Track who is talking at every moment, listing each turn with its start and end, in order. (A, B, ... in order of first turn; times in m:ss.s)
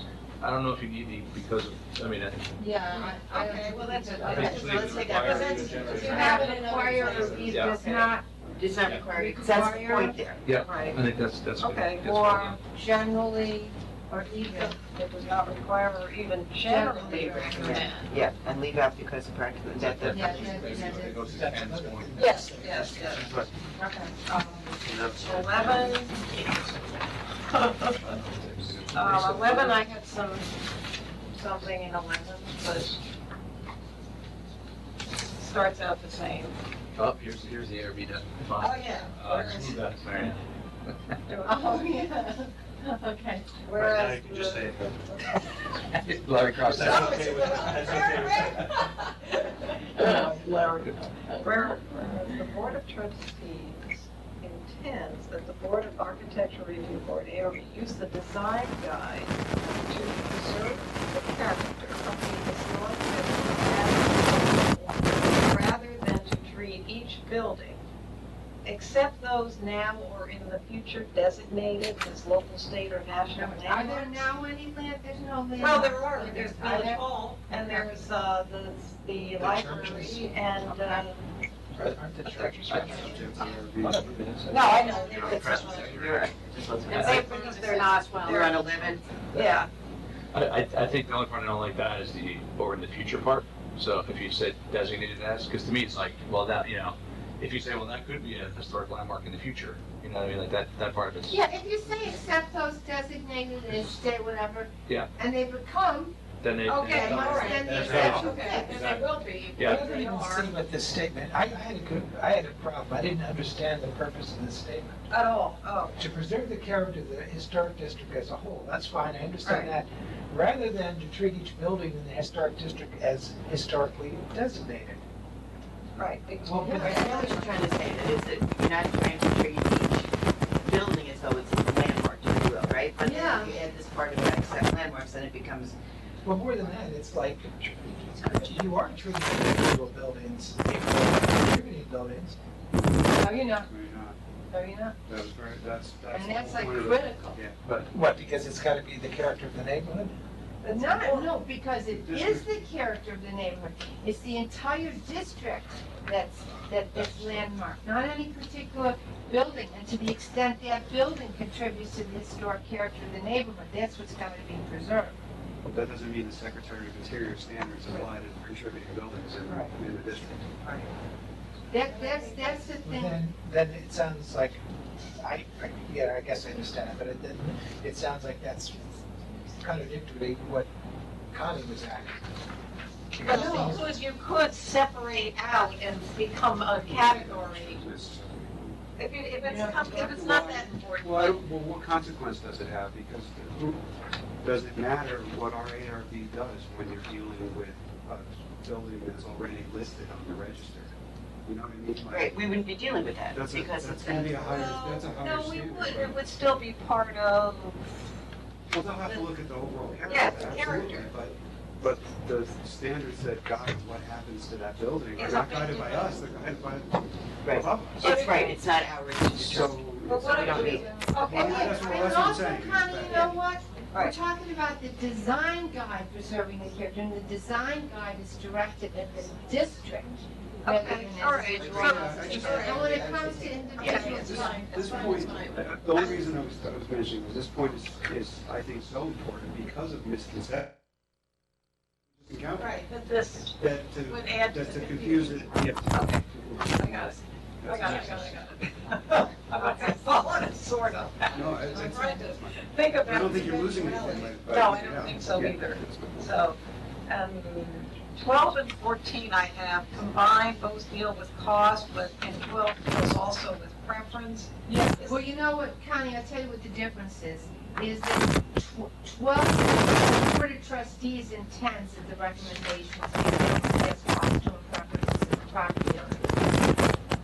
0:00.4-0:02.4 A
0:02.6-0:04.8 B
0:02.9-0:08.0 C
0:04.2-0:06.0 A
0:04.3-0:08.0 D
0:05.6-0:10.2 B
0:05.6-0:07.6 E
0:07.3-0:07.8 A
0:08.6-0:10.4 D
0:10.4-0:12.6 A
0:10.6-0:11.0 C
0:11.6-0:12.6 C
0:12.5-0:14.8 B
0:14.4-0:18.1 C
0:16.6-0:17.9 B
0:16.9-0:20.4 D
0:19.7-0:22.2 A
0:20.0-0:21.2 B
0:20.1-0:23.5 F
0:22.2-0:23.3 C
0:23.8-0:24.1 B
0:24.1-0:26.4 C
0:25.0-0:25.3 A
0:27.5-0:28.0 C
0:28.0-0:29.2 A
0:28.5-0:29.8 E
0:28.9-0:30.6 C
0:31.3-0:33.0 C
0:35.4-0:36.6 C
0:37.0-0:41.2 A
0:38.6-0:39.9 C
0:41.2-0:42.1 C
0:41.4-0:43.6 B
0:43.6-0:45.5 C
0:44.1-0:44.4 A
0:45.8-0:47.4 A
0:46.6-0:48.7 E
0:46.6-1:07.8 C
1:08.6-1:14.2 C
1:13.3-1:17.9 B
1:15.6-1:21.2 C
1:19.4-1:21.0 F
1:21.7-1:24.7 F
1:22.2-1:23.4 C
1:22.7-1:23.0 A
1:22.9-1:25.3 E
1:24.0-1:26.2 A
1:24.5-1:26.0 C
1:25.3-1:29.0 D
1:26.9-1:28.7 C
1:29.3-1:29.7 C
1:30.3-1:41.4 A
1:41.2-1:46.2 B
1:46.4-1:49.9 A
1:46.7-1:50.5 C
1:46.8-1:48.8 B
1:47.7-1:48.3 F
1:47.9-1:48.2 E
1:49.6-1:55.1 F
1:55.1-1:56.0 C
1:56.0-2:05.0 F
1:59.4-1:59.8 C
2:06.0-2:07.6 C
2:06.4-2:07.0 F
2:06.6-2:07.2 B
2:06.7-2:10.1 D
2:10.6-2:15.7 D
2:13.0-2:13.5 B
2:16.2-2:22.4 F
2:23.1-2:23.7 B
2:23.6-2:24.2 E
2:24.5-2:25.0 B
2:25.1-2:27.7 E
2:26.1-2:27.4 B
2:27.7-2:30.1 F
2:30.6-2:31.3 C
2:30.7-2:45.2 B
2:31.9-2:32.5 E
2:36.9-2:37.4 E
2:45.6-2:50.5 E
2:49.5-2:49.7 C
2:50.6-2:50.9 C
2:51.7-2:53.2 B
2:51.8-2:52.8 C
2:52.8-2:54.6 F
2:55.2-3:00.7 F
3:01.3-3:02.2 F
3:03.1-3:03.8 F
3:03.2-3:07.8 C
3:03.2-3:03.8 B
3:06.8-3:08.8 E
3:09.0-3:11.4 C
3:09.4-3:09.7 B
3:09.4-3:13.8 E
3:14.4-3:20.9 E
3:21.4-3:22.4 E
3:22.0-3:24.8 D
3:23.3-3:26.2 E
3:24.5-3:27.9 C
3:28.7-3:38.3 E
3:30.0-3:31.2 C
3:35.2-3:36.2 C
3:37.4-3:41.0 D
3:38.0-3:38.6 C
3:39.3-3:43.3 E
3:40.0-3:42.1 C
3:41.2-3:54.8 B
3:43.0-3:43.3 C
3:43.9-3:44.2 C
3:50.6-3:53.0 C
3:51.7-4:00.8 E
3:53.2-3:54.2 D
3:53.8-3:56.3 C
4:02.2-4:02.8 E
4:02.6-4:25.2 C
4:03.6-4:08.3 E
4:11.3-4:16.2 E
4:24.7-4:36.5 B